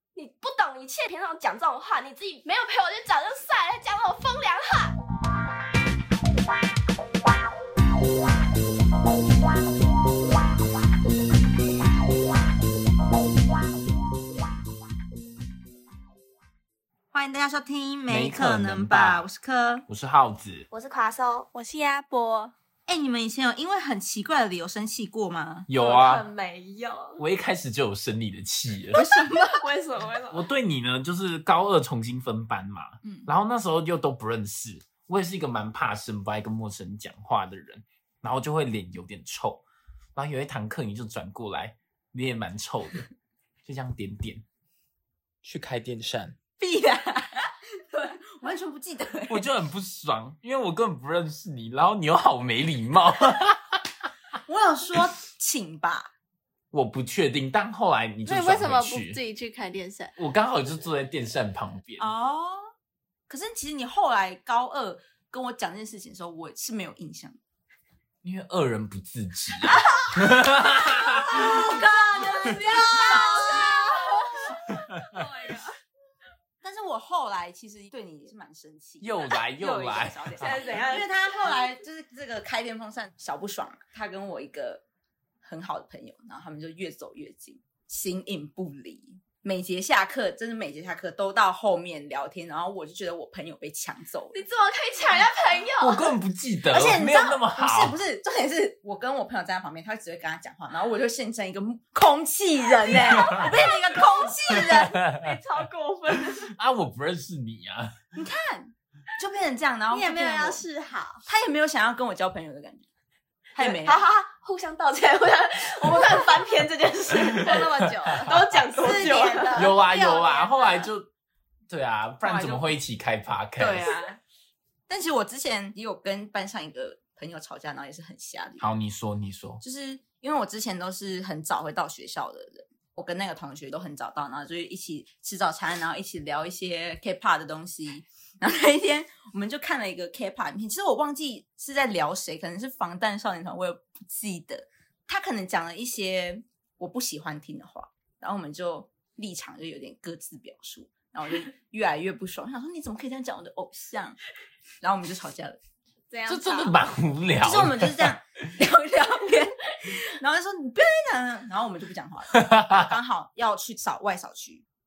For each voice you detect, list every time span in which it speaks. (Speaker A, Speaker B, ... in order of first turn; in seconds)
Speaker A: 0.1-5.0, 20.7-21.5, 25.7-27.2, 29.4-30.5, 72.9-73.4, 80.4-81.1, 94.3-96.1, 102.9-106.5, 113.6-119.7
Speaker B: 17.1-19.9, 22.9-25.7, 28.9-29.6, 46.6-49.4, 54.5-56.1, 62.0-62.7, 63.3-67.4, 71.2-74.8, 76.6-84.8, 85.4-94.4, 96.7-105.0, 108.1-110.6, 111.2-112.8, 113.5-114.0, 118.8-119.6, 122.2-122.6, 123.6-124.2, 124.9-128.7, 129.6-154.2, 154.8-155.6, 157.4-164.6
Speaker C: 18.1-19.3, 19.9-20.7, 25.7-26.2, 27.2-29.0, 30.3-39.6, 40.1-43.1, 43.6-44.4, 45.4-46.4, 49.3-53.8, 56.7-59.2, 60.2-62.1, 68.2-71.8, 79.0-80.6, 95.8-98.0, 104.6-105.3, 106.3-107.9, 119.5-121.1, 121.7-124.0, 128.6-129.6, 156.3-158.1, 162.4-162.7
Speaker D: 21.5-22.5, 58.2-60.1, 72.2-75.7, 109.9-111.2, 117.4-120.9, 156.1-156.8